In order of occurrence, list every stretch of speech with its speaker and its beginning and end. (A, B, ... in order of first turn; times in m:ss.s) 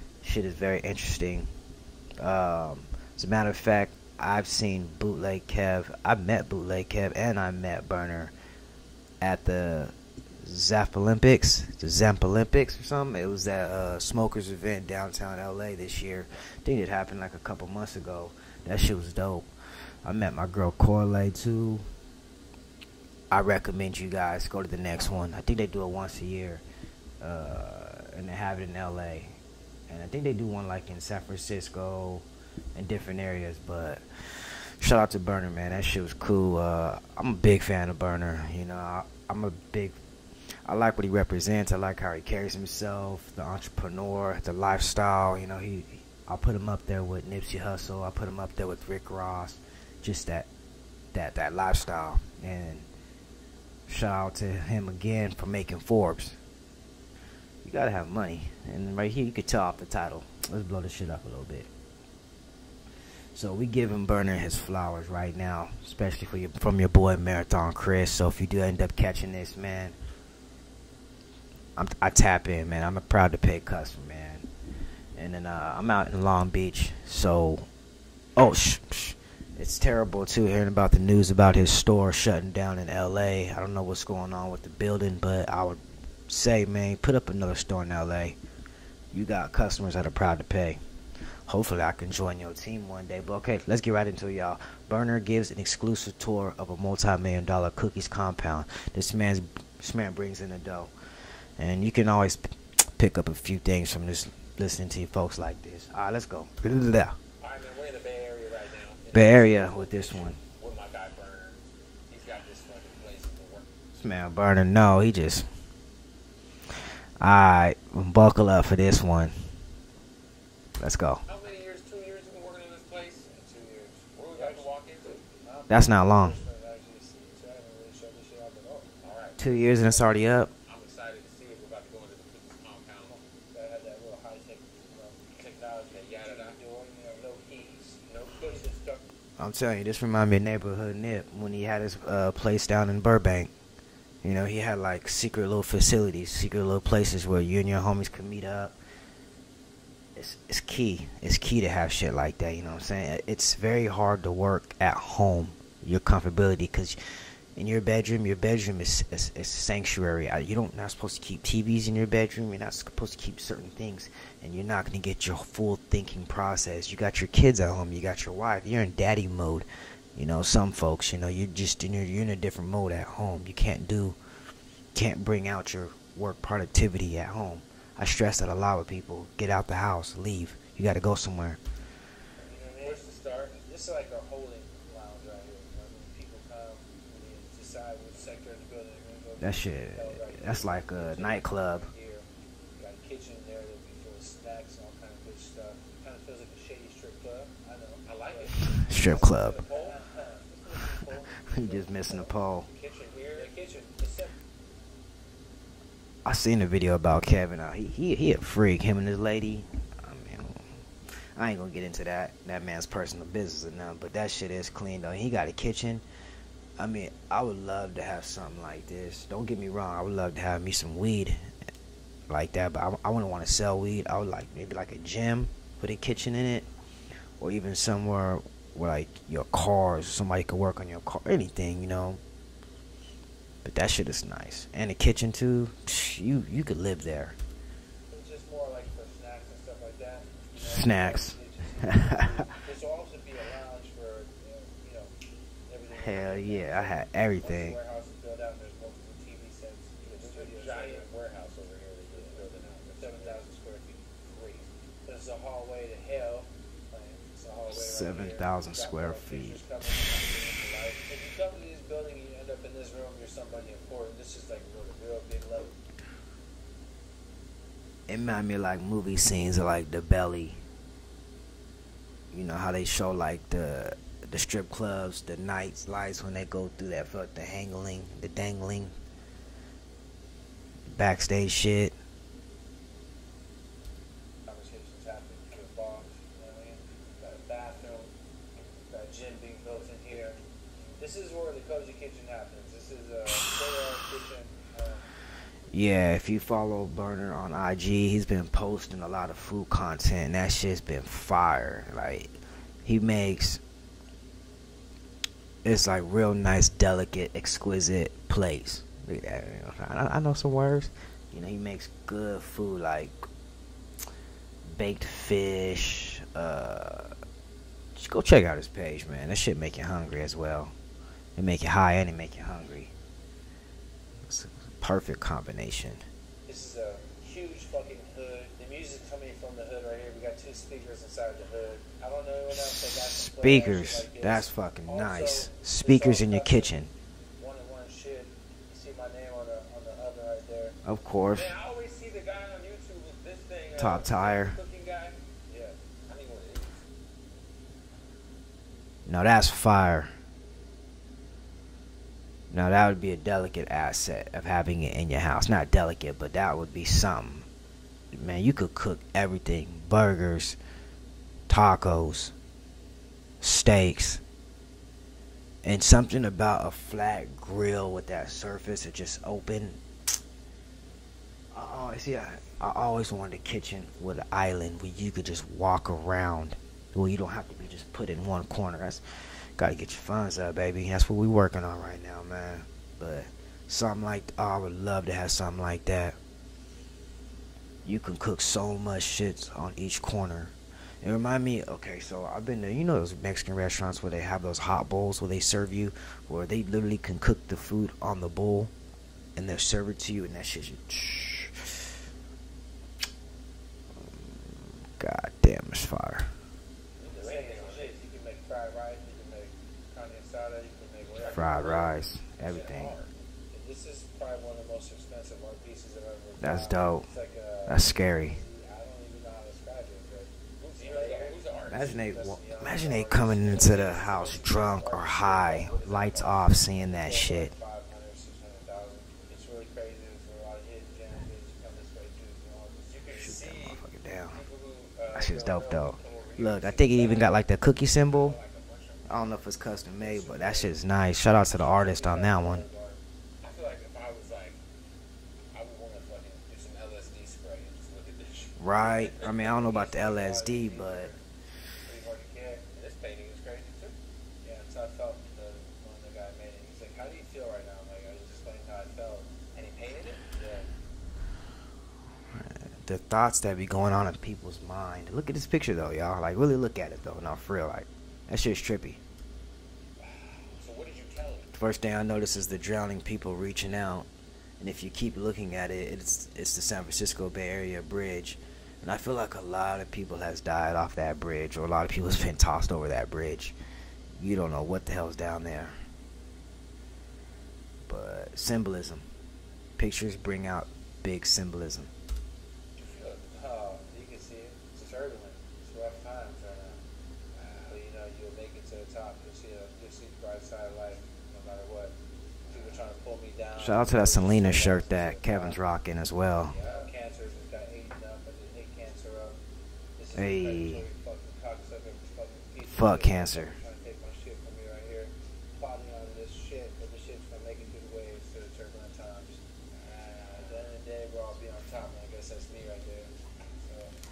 0:00.2-0:01.5 A
0:02.2-0:08.3 A
0:09.2-0:19.5 A
0:20.0-0:21.8 A
0:23.3-0:26.6 A
0:27.2-0:29.4 A
0:29.9-0:40.0 A
0:40.7-0:50.5 A
0:51.1-0:52.9 A
0:53.9-0:56.4 A
0:57.6-1:01.7 A
1:03.4-1:10.0 A
1:11.8-1:14.5 A
1:15.2-1:17.7 A
1:18.4-1:28.4 A
1:29.1-1:30.8 A
1:31.5-1:40.9 A
1:41.6-1:42.4 A
1:43.0-1:47.2 A
1:47.4-1:53.7 B
1:49.1-1:50.4 A
1:54.0-1:55.5 A
1:57.2-1:59.3 A
2:00.8-2:01.2 A
2:01.3-2:03.3 B
2:03.3-2:04.7 C
2:04.2-2:05.2 B
2:05.3-2:09.0 C
2:05.7-2:06.4 A
2:09.0-2:13.2 B
2:09.4-2:10.5 A
2:13.1-2:19.0 C
2:15.9-2:16.6 B
2:19.4-2:23.5 A
2:24.2-2:28.8 A
2:30.2-2:37.0 A
2:37.6-2:54.2 A
2:55.0-3:01.6 A
3:02.4-3:12.3 C
3:02.8-3:03.6 B
3:09.4-3:11.9 A
3:12.8-3:22.4 C
3:18.0-3:20.0 B
3:18.8-3:19.6 A
3:21.0-3:22.7 A
3:22.7-3:23.5 B
3:23.2-3:24.4 C
3:26.2-3:30.7 A
3:31.4-3:36.0 A
3:36.8-3:41.4 A
3:42.3-3:46.7 A
3:47.4-3:52.2 A
3:53.6-3:57.4 A
3:58.1-4:05.1 C
4:00.5-4:02.3 A
4:05.7-4:11.1 C
4:05.9-4:07.8 A
4:10.1-4:13.4 B
4:12.2-4:12.4 C
4:13.0-4:14.1 C
4:14.2-4:14.7 B
4:15.0-4:25.8 C
4:17.7-4:19.6 A
4:28.1-4:30.6 A
4:32.3-4:39.0 A
4:40.9-4:42.0 A
4:44.5-4:48.1 C
4:48.9-4:50.4 C
4:51.0-4:55.1 C
4:55.7-5:02.3 A
5:02.8-5:03.6 A
5:05.6-5:13.2 A
5:14.7-5:17.2 A
5:18.0-5:20.7 A
5:21.4-5:22.9 A
5:24.3-5:26.0 A
5:26.5-5:36.8 C
5:33.1-5:36.9 A
5:37.4-5:40.8 C
5:40.8-5:41.5 A
5:41.3-5:45.2 B
5:43.8-5:44.6 A
5:45.5-5:45.8 C
5:46.1-5:46.8 B
5:49.1-5:50.1 A
5:52.5-5:57.5 A
5:58.1-6:00.6 A
6:01.5-6:02.3 A
6:03.4-6:04.2 A
6:05.6-6:09.8 A
6:11.5-6:19.0 A
6:19.6-6:26.2 A
6:27.8-6:38.7 A
6:39.4-6:41.8 A
6:44.1-6:46.3 A
6:47.0-6:48.0 B
6:47.1-6:51.9 C
6:51.1-6:53.1 B
6:51.3-6:53.0 A
6:53.5-7:04.4 C
6:56.4-6:57.1 A
6:57.7-6:58.4 A
7:00.6-7:01.9 B
7:01.7-7:07.5 A
7:03.4-7:06.6 B
7:06.2-7:13.1 C
7:12.9-7:17.5 B
7:13.1-7:14.4 A
7:15.1-7:18.4 A
7:18.0-7:19.4 B
7:19.1-7:22.6 A
7:20.0-7:23.0 C
7:23.4-7:24.6 B
7:25.5-7:29.6 B
7:28.6-7:31.1 A
7:29.4-7:31.2 C
7:31.8-7:32.7 C
7:32.7-7:34.0 B
7:34.4-7:39.4 C
7:39.5-7:40.3 B
7:40.3-7:40.7 C
7:42.4-7:49.0 A
7:50.0-7:51.5 B
7:51.5-7:54.1 A
7:54.6-8:03.6 A
8:04.2-8:05.8 A
8:07.9-8:09.1 A
8:09.8-8:11.9 A
8:12.8-8:13.2 B
8:13.2-8:16.8 C
8:17.4-8:17.8 B
8:17.5-8:22.0 C
8:22.5-8:25.6 C
8:23.6-8:26.6 A
8:26.5-8:26.9 B
8:26.6-8:29.4 C
8:30.0-8:39.4 C
8:30.1-8:30.8 A
8:32.6-8:33.6 A
8:39.7-8:40.7 B
8:40.3-8:44.0 C